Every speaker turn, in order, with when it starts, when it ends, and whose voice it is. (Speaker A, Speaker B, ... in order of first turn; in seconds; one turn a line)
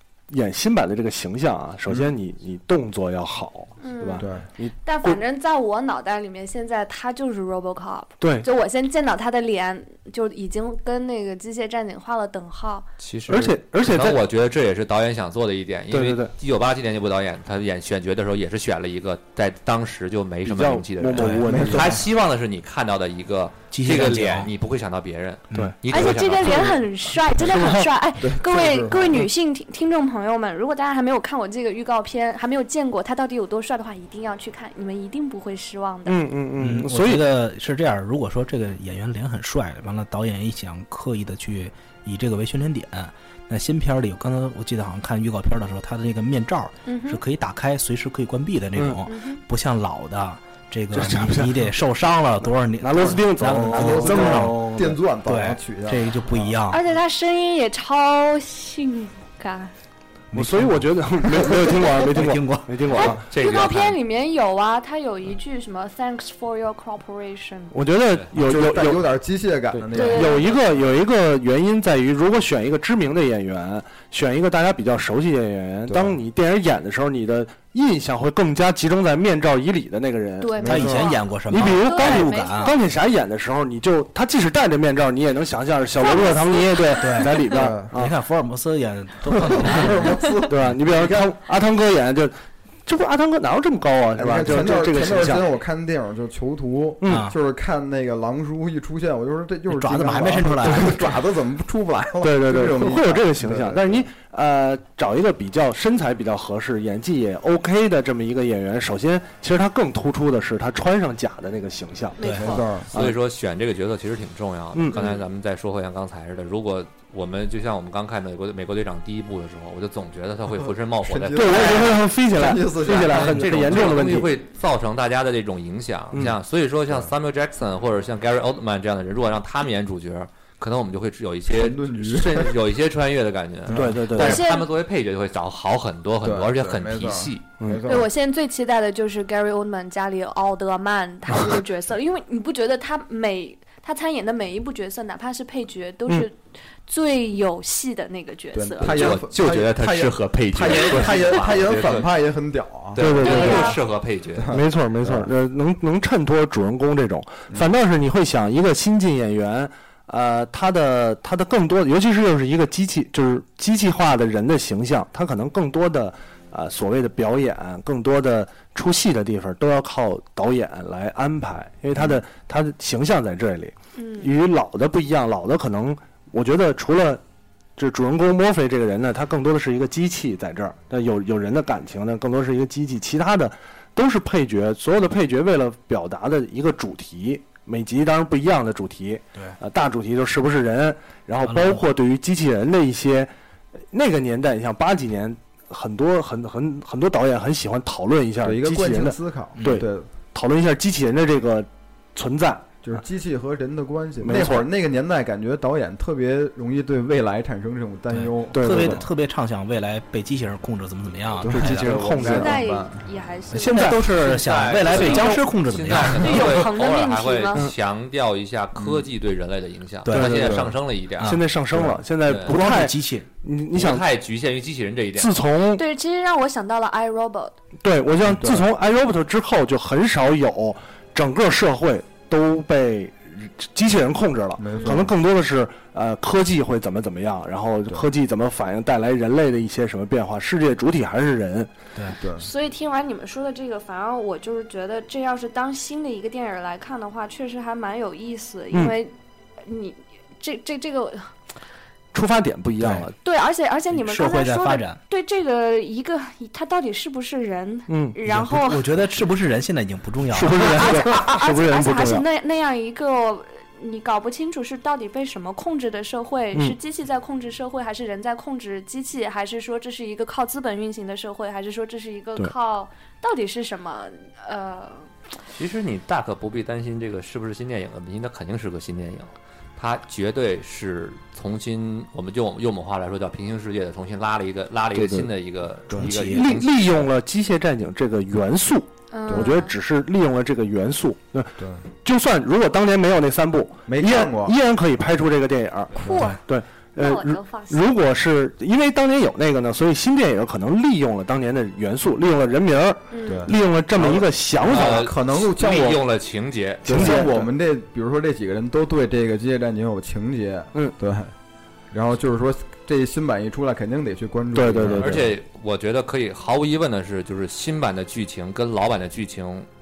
Speaker A: 0.3-5.2
Speaker B: 1.9-2.1
Speaker C: 3.8-12.8
Speaker B: 4.2-4.5
Speaker A: 8.2-8.4
Speaker D: 13.0-26.8
Speaker A: 13.3-14.2
Speaker A: 15.9-16.3
Speaker A: 20.4-22.0
Speaker E: 21.1-21.4
Speaker B: 21.4-22.0
Speaker E: 23.7-24.5
Speaker A: 25.5-26.8
Speaker C: 25.9-36.2
Speaker A: 27.4-27.9
Speaker B: 28.2-29.3
Speaker A: 36.0-37.2
Speaker E: 36.6-54.6
Speaker C: 46.9-47.2
Speaker A: 48.8-49.0
Speaker C: 49.0-49.4
Speaker A: 50.9-51.7
Speaker A: 52.8-55.0
Speaker B: 53.7-56.3
Speaker E: 55.2-56.8
Speaker C: 56.7-59.7
Speaker E: 60.3-62.8
Speaker A: 60.3-63.2
Speaker C: 62.9-67.8
Speaker D: 63.3-64.0
Speaker A: 67.7-69.0
Speaker B: 68.3-70.5
Speaker A: 69.7-88.2
Speaker C: 69.9-70.6
Speaker B: 75.9-76.2
Speaker C: 80.4-82.8
Speaker B: 80.6-81.0
Speaker E: 80.7-82.7
Speaker C: 86.0-87.6
Speaker E: 86.9-90.4
Speaker B: 87.5-87.9
Speaker B: 89.4-91.3
Speaker A: 90.5-95.4
Speaker B: 94.2-104.0
Speaker E: 97.0-97.3
Speaker E: 99.7-101.0
Speaker A: 102.2-112.2
Speaker C: 112.2-112.7
Speaker E: 112.2-112.5
Speaker B: 112.2-112.9
Speaker D: 112.9-122.0
Speaker A: 114.7-115.0
Speaker C: 114.9-115.2
Speaker B: 121.0-123.9
Speaker A: 121.3-124.3
Speaker D: 123.0-137.4
Speaker B: 131.5-132.6
Speaker B: 133.7-134.0
Speaker A: 133.7-134.4
Speaker C: 134.1-134.7
Speaker B: 136.2-138.1
Speaker C: 137.8-149.1
Speaker B: 148.5-153.7
Speaker D: 148.8-152.1
Speaker C: 150.7-151.1
Speaker D: 152.9-154.6
Speaker A: 153.0-153.8
Speaker C: 153.2-153.8
Speaker B: 154.4-155.3
Speaker A: 154.5-177.2
Speaker C: 173.9-174.3
Speaker A: 177.8-193.3
Speaker E: 191.4-191.8
Speaker A: 193.9-202.7
Speaker B: 198.4-200.1
Speaker B: 202.8-209.1
Speaker A: 204.2-204.7
Speaker E: 208.1-211.9
Speaker A: 208.5-209.1
Speaker B: 211.4-213.0
Speaker A: 211.4-212.6
Speaker C: 212.2-214.1
Speaker E: 213.5-216.6
Speaker A: 213.7-213.9
Speaker D: 213.8-221.4
Speaker A: 214.9-215.3
Speaker C: 216.1-217.7
Speaker B: 218.8-219.1
Speaker E: 220.0-220.5
Speaker B: 220.1-220.7
Speaker A: 220.1-220.6
Speaker E: 221.2-221.4
Speaker A: 221.2-224.0
Speaker B: 221.7-222.0
Speaker D: 222.2-222.5
Speaker E: 222.4-223.3
Speaker D: 223.7-225.3
Speaker A: 225.2-225.8
Speaker C: 225.8-227.5
Speaker A: 227.8-241.7
Speaker B: 228.4-228.7
Speaker B: 234.6-235.1
Speaker C: 234.7-235.0
Speaker B: 242.1-242.5
Speaker C: 242.3-251.3
Speaker A: 252.1-253.1
Speaker E: 252.8-253.1
Speaker C: 253.2-258.9
Speaker E: 253.9-255.0
Speaker A: 257.9-258.2
Speaker E: 258.2-261.3
Speaker A: 260.3-262.2
Speaker C: 260.6-275.1
Speaker D: 275.5-287.1
Speaker A: 284.9-285.3
Speaker E: 285.9-286.5
Speaker A: 286.0-305.1
Speaker C: 289.1-289.8
Speaker B: 289.3-289.6
Speaker B: 291.6-291.8
Speaker B: 293.9-294.5
Speaker C: 296.0-296.4
Speaker C: 297.0-297.9
Speaker C: 303.1-303.5
Speaker B: 303.3-306.0
Speaker D: 304.7-307.3
Speaker A: 306.8-307.5
Speaker B: 306.8-311.3
Speaker B: 311.9-315.3
Speaker A: 314.5-315.3
Speaker D: 314.8-319.7